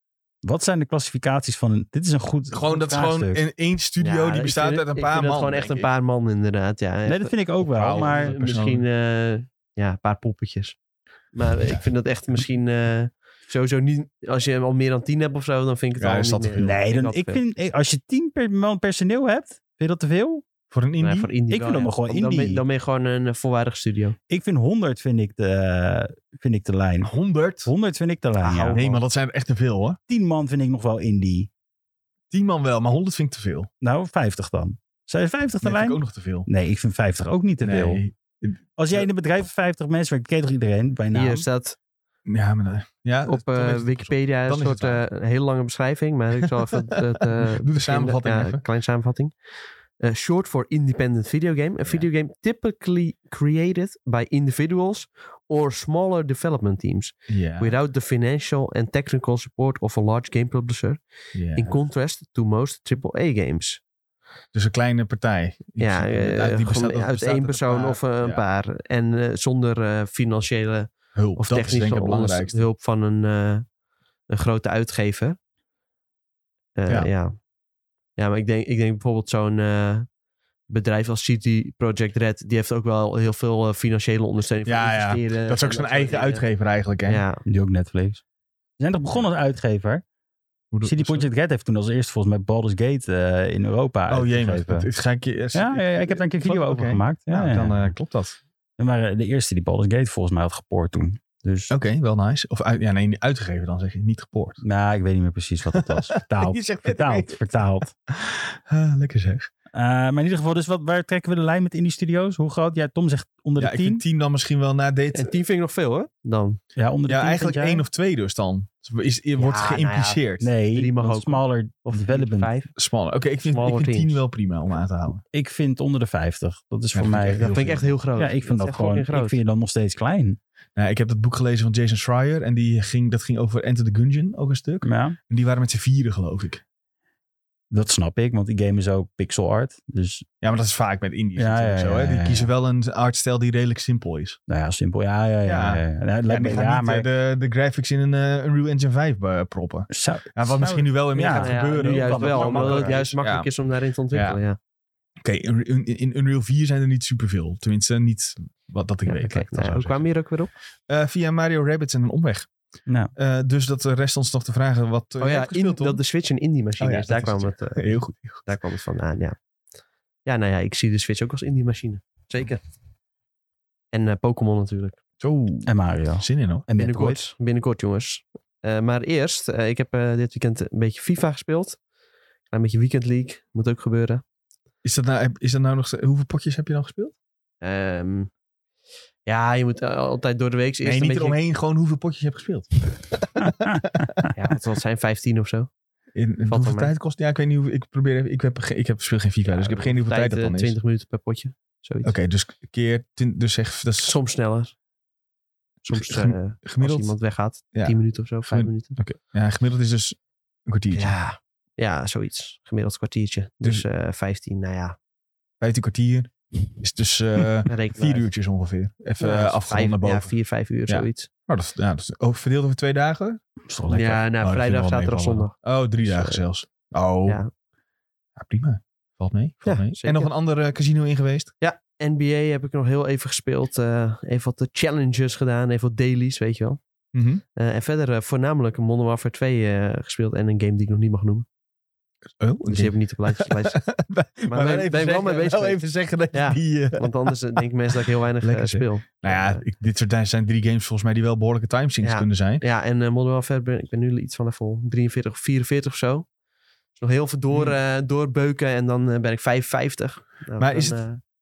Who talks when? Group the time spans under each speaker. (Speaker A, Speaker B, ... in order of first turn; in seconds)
Speaker A: 0.4-3.4, 7.0-8.3, 16.6-20.4, 21.5-22.6, 24.3-27.1, 27.6-28.8, 30.1-31.5, 33.8-38.0, 38.8-41.5, 87.5-88.2, 88.8-90.0, 90.8-94.9, 95.5-97.9, 98.8-101.7, 104.6-107.9, 109.7-114.0, 116.8-117.8, 120.4-122.5, 125.3-127.5, 128.2-130.4, 134.8-135.2, 137.7-140.2, 141.4-142.5, 144.5-147.1, 149.9-153.0, 162.9-163.1, 175.7-177.2, 193.4-194.2, 223.6-224.2
Speaker B: 2.5-5.9, 7.7-8.8, 16.0-16.8, 20.7-21.3, 27.0-27.7, 28.7-30.0, 32.3-33.7, 35.6-36.5, 37.6-39.0, 42.3-45.0, 46.4-48.6, 57.3-57.7, 61.3-61.8, 64.5-68.4, 71.1-72.7, 84.6-87.2, 90.7-91.3, 94.1-98.4, 101.7-104.6, 105.7-107.5, 108.1-109.5, 113.6-115.3, 117.1-120.5, 122.8-125.2, 126.9-127.9, 130.8-136.6, 140.4-144.4, 145.4-153.5, 154.1-154.4, 155.2-160.1, 160.9-162.5, 163.1-166.0, 166.8-168.5, 175.2-176.6, 184.8-187.1, 190.8-194.3, 196.1-200.8, 202.0-204.1, 205.9-207.1, 207.7-211.1, 215.6-220.3, 220.9-223.4, 224.4-227.4, 228.3-231.5, 237.1-237.4, 242.4-247.6, 248.4-252.6, 257.5-257.8, 260.6-261.0
Speaker C: 4.0-10.8, 11.3-17.4, 21.0-24.2, 28.4-29.0, 41.1-41.8, 43.2-49.3, 50.0-61.0, 61.5-63.8, 65.8-73.7, 74.3-75.4, 76.8-77.3, 78.2-80.1, 80.7-86.4, 87.0-87.4, 115.1-116.6, 119.4-120.2, 120.7-122.7, 123.5-124.2, 127.4-129.4, 151.3-154.6, 159.1-160.5, 165.2-169.3, 170.2-172.6, 173.9-175.0, 176.8-181.8, 182.5-184.2, 187.6-188.3, 189.2-191.4, 194.3-195.7, 196.5-196.9, 199.4-202.1, 204.0-204.7, 205.8-208.9, 210.9-214.9, 217.7-218.3, 219.2-221.3, 223.9-226.4, 229.6-230.3, 231.6-236.8, 237.6-241.4, 242.7-243.8, 244.5-249.6, 252.0-256.3, 257.0-261.2